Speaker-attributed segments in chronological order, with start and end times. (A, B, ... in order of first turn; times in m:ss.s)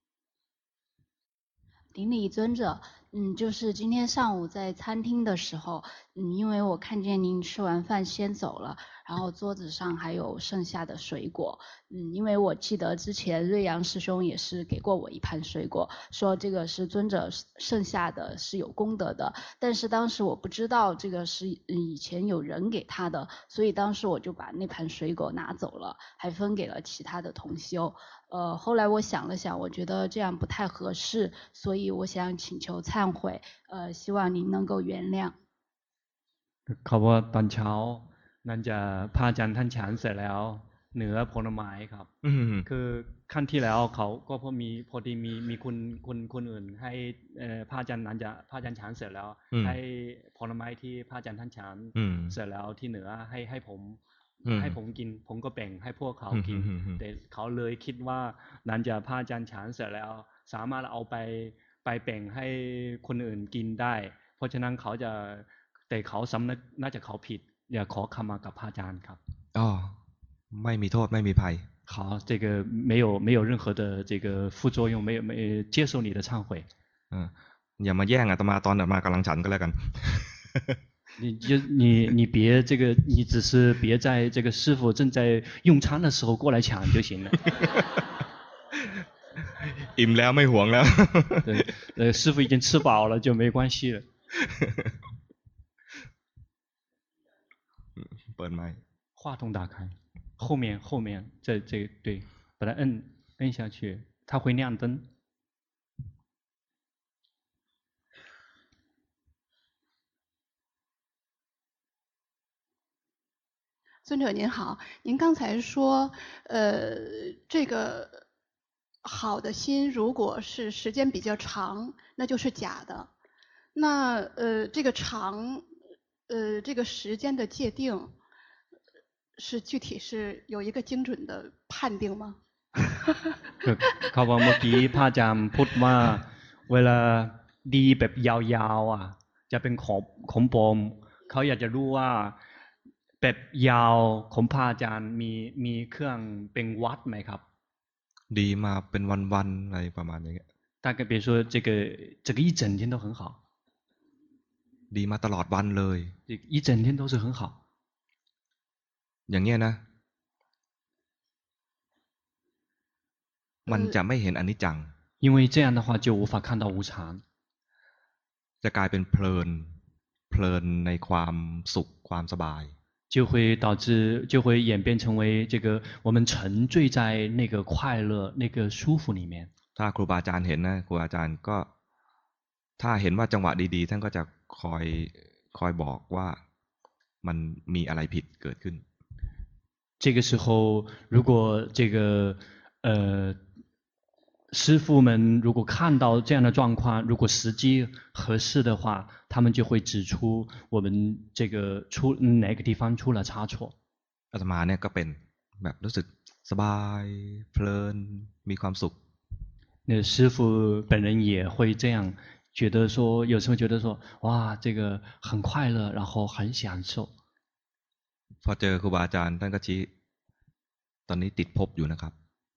0:01.9-0:35.4 A
0:36.7-0:42.1 B
0:42.2-0:42.7 C
0:42.6-1:09.2 B
0:52.0-0:52.3 C
0:54.4-0:54.8 C
0:56.3-0:57.0 C
1:09.5-1:10.0 C
1:10.5-1:11.6 C
1:11.9-1:16.7 B
1:17.1-1:20.8 C
1:21.2-1:27.4 B
1:29.6-1:31.6 C
1:31.4-1:34.0 B
1:34.4-1:34.8 C
1:38.0-1:38.8 C
1:39.2-1:45.1 B
1:54.0-1:58.2 D
1:59.0-2:03.1 D
2:03.7-2:05.7 D
2:06.3-2:08.1 D
2:09.4-2:13.2 D
2:13.6-2:22.4 B
2:23.2-2:27.4 B
2:28.3-2:30.4 C
2:30.8-2:33.4 B
2:34.9-2:36.1 C
2:36.3-2:37.6 B
2:39.3-2:39.8 C
2:43.7-2:44.9 C
2:45.2-2:47.2 B
2:48.6-2:49.7 C
2:50.3-2:52.7 C
2:53.1-2:59.5 B
2:59.8-3:01.7 C
3:02.8-3:06.4 C
3:07.2-3:08.8 C
3:10.0-3:13.4 B
3:14.5-3:23.7 B
3:24.3-3:28.9 C
3:29.9-3:37.1 B
3:38.4-3:39.9 C
3:41.1-3:42.1 C